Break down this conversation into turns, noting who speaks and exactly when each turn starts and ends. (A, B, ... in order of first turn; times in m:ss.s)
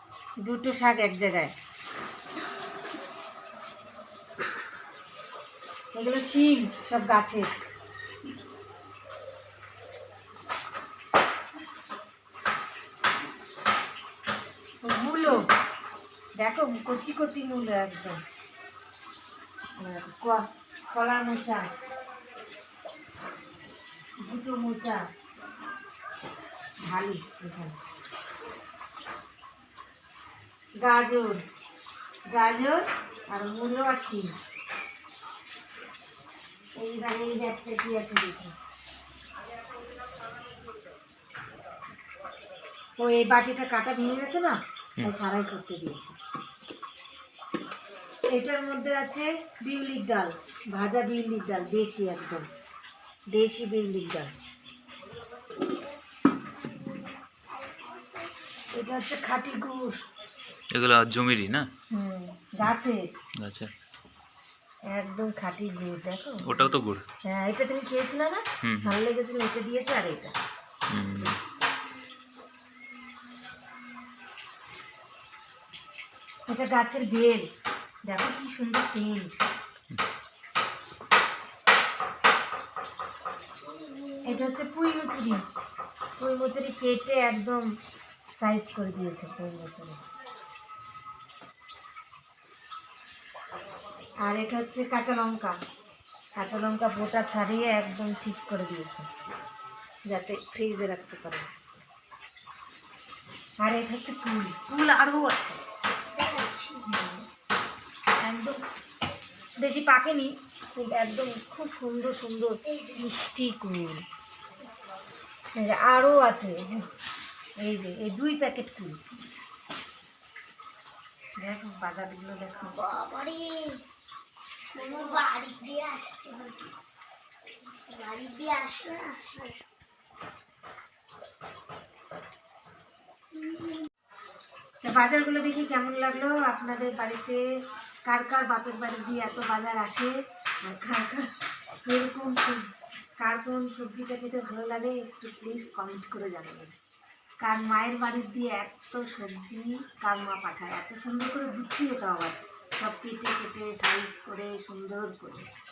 0:00.4-0:01.5 A
0:06.0-0:07.5 A
0:14.8-0:15.4 A
0:16.4-0:18.2 A
0:19.8-0:21.7 A
0:24.2-0:25.0 A
0:26.8-0:27.8 A
0:30.8-0:31.4 A
0:32.3-0:34.4 A
0:36.8-0:38.6 A
0:43.0-0:46.2 A
0:48.3-0:52.5 A
0:53.3-0:54.3 A
0:56.6-0:58.4 B
0:58.7-1:00.0 A
1:00.7-1:01.7 C
1:01.9-1:03.1 A
1:03.4-1:03.7 C
1:04.9-1:06.7 A
1:06.4-1:07.0 C
1:07.2-1:10.3 A
1:08.6-1:09.0 C
1:10.9-1:11.4 C
1:16.5-1:17.5 A
1:18.0-1:19.4 A
1:23.6-1:24.6 B
1:24.2-1:25.4 A
1:26.2-1:27.8 A
1:28.4-1:30.0 A
1:34.2-1:35.6 A
1:36.4-1:39.1 A
1:40.1-1:41.5 A
1:43.6-1:45.6 A
1:46.2-1:46.8 B
1:46.9-1:47.3 A
1:48.2-1:48.6 A
1:49.6-1:54.0 A
1:52.6-1:53.1 B
1:55.6-1:56.9 A
1:57.6-1:59.0 A
2:01.4-2:02.8 A
2:02.6-2:03.8 B
2:04.7-2:06.7 B
2:07.9-2:09.6 B
2:13.4-2:13.8 B
2:14.8-2:17.4 A
2:18.0-2:21.3 A
2:21.8-2:26.7 A
2:27.4-2:35.5 A